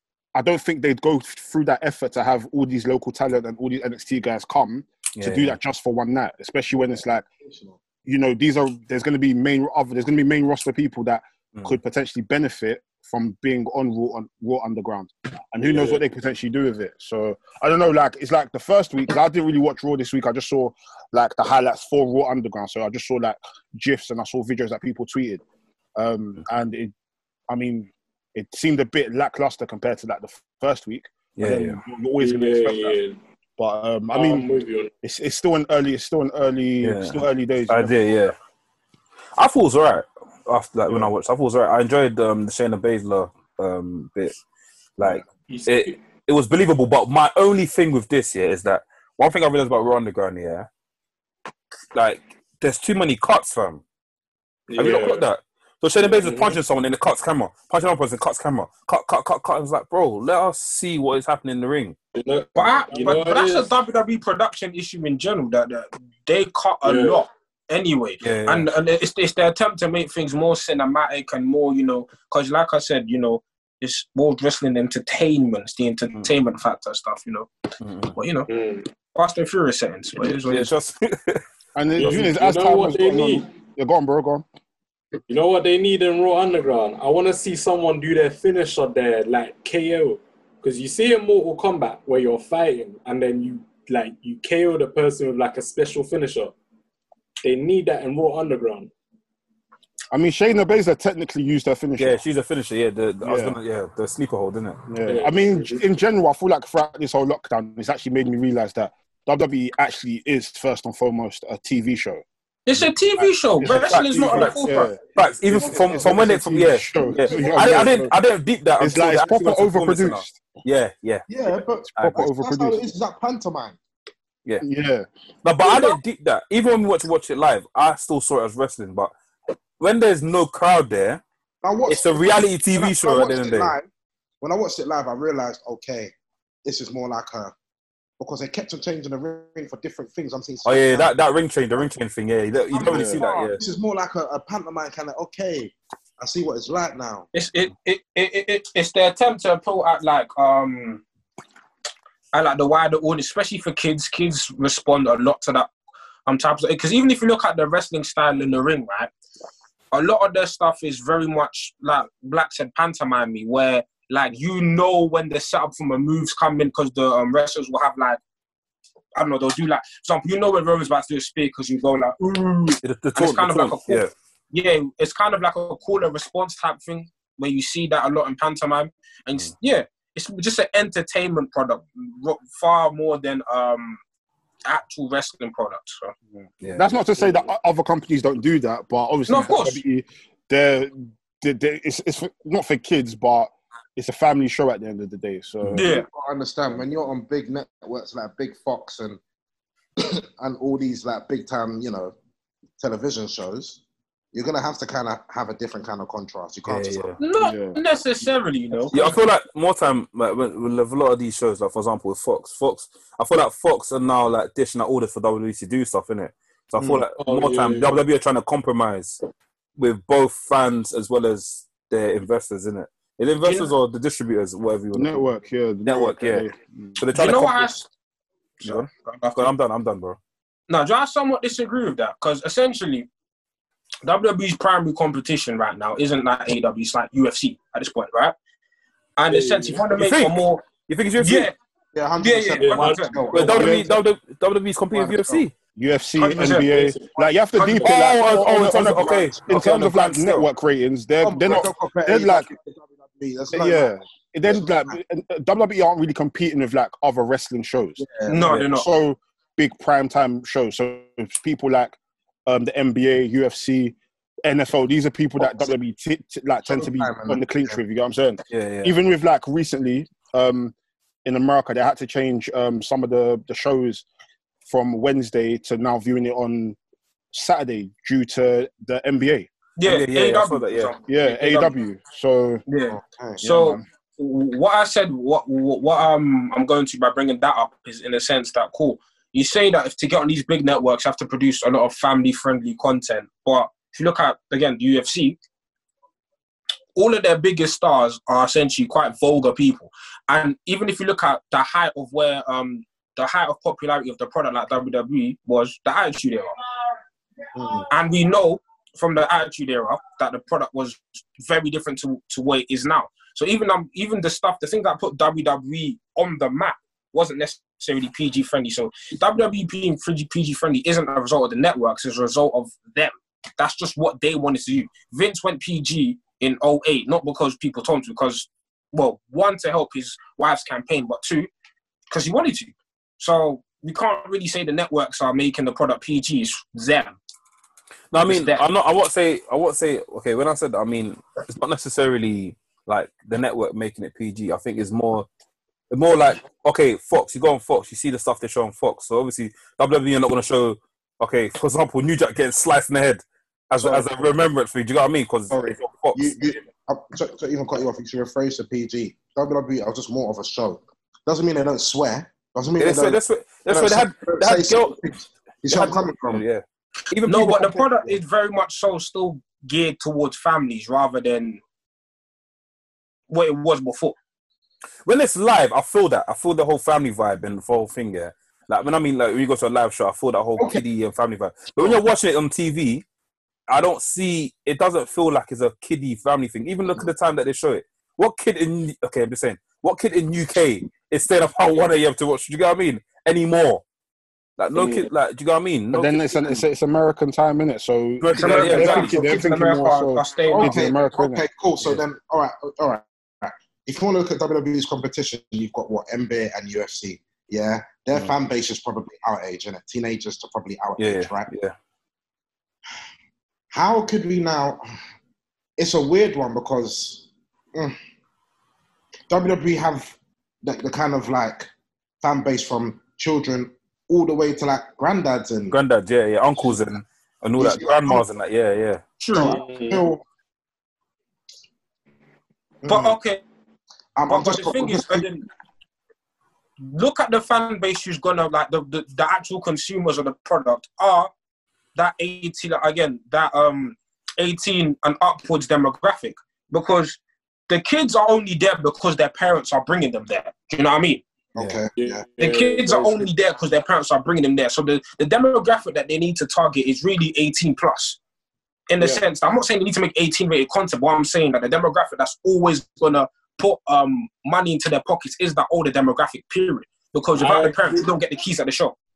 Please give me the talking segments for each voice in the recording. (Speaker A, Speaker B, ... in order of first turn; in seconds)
Speaker A: 0.3-7.2, 8.0-25.4, 25.9-26.9, 27.5-33.0, 33.6-34.5, 35.0-38.0, 81.8-84.4, 100.1-102.2, 103.2-103.6, 104.9-112.2, 113.6-115.0, 115.5-118.1, 118.8-120.4, 121.8-122.8, 124.6-125.1, 142.8-143.2, 186.4-195.9, 207.4-207.8, 224.9-227.0, 243.6-243.9, 245.8-252.5, 253.5-270.7, 271.2-274.1, 274.6-276.8, 277.3-279.5, 281.1-282.6, 283.4-283.8, 395.9-401.4
Speaker B: 5.2-5.6, 31.4-31.8, 36.8-38.4, 39.4-44.4, 45.0-50.7, 51.9-53.8, 54.8-62.0, 68.2-68.7, 77.8-78.1, 80.2-81.4, 102.0-104.8, 113.6-121.2, 122.0-122.2, 125.4-129.1, 129.8-131.2, 131.9-133.8, 140.6-143.6, 172.8-174.1, 186.6-186.9, 206.6-207.2, 208.9-219.2, 219.8-225.3, 225.8-226.4, 227.0-227.8, 228.6-230.2, 239.9-241.5, 243.3-245.5, 247.8-250.4, 268.5-268.9, 279.8-280.9, 338.1-345.3, 345.9-356.4, 362.8-364.9, 365.7-368.2, 375.1-383.0, 383.7-393.8, 394.6-396.6, 398.2-399.2, 411.0-411.7, 425.7-429.0
Speaker C: 7.4-7.8, 115.5-116.0, 117.0-118.0, 121.3-123.8, 131.6-133.9, 134.4-136.1, 136.6-137.5, 138.2-141.1, 142.7-147.3, 195.9-199.2, 200.0-202.1, 202.8-203.8, 204.3-207.2, 241.9-244.0, 244.9-245.4, 247.2-249.5, 251.2-253.9, 254.5-255.0, 258.0-258.5, 265.4-265.7, 266.7-267.8, 282.9-283.4, 307.5-307.9, 353.8-354.3, 355.5-363.2, 363.7-366.4, 380.6-380.8, 400.4-411.5, 413.7-414.8, 415.8-418.0, 419.3-421.7, 422.2-425.7, 427.6-428.2, 429.3-430.2, 432.8-433.2, 434.1-435.2, 451.6-452.2
Speaker D: 15.7-16.0, 32.2-33.2, 34.1-34.9, 45.5-46.0, 54.7-55.2, 56.0-56.6, 62.1-63.7, 66.8-67.2, 78.5-78.9, 82.0-83.5, 85.3-96.5, 97.4-98.9, 105.0-105.8, 217.2-218.0, 239.3-239.8, 242.6-243.4, 246.5-247.1, 429.3-430.1, 451.9-453.3, 467.4-468.1
Speaker E: 62.5-77.5, 78.1-78.5, 79.1-80.7, 112.7-114.9, 147.3-151.0, 152.3-155.7, 156.2-159.1, 159.9-168.2, 169.1-184.0, 184.6-186.1, 189.3-189.8, 195.7-196.1, 207.2-209.2, 223.4-223.7, 227.1-227.9, 228.6-229.4, 230.7-233.1, 234.0-238.3, 239.2-240.7, 241.2-241.6, 242.2-243.8, 246.2-246.7, 258.3-258.9, 279.8-281.7, 282.7-295.4, 296.9-306.6, 307.9-331.5, 332.1-337.1, 338.2-338.6, 367.2-371.6, 373.3-374.1, 398.3-400.8, 429.2-429.6, 432.9-433.4, 434.3-435.4, 436.8-441.3, 441.9-451.2, 452.4-458.2, 458.9-468.9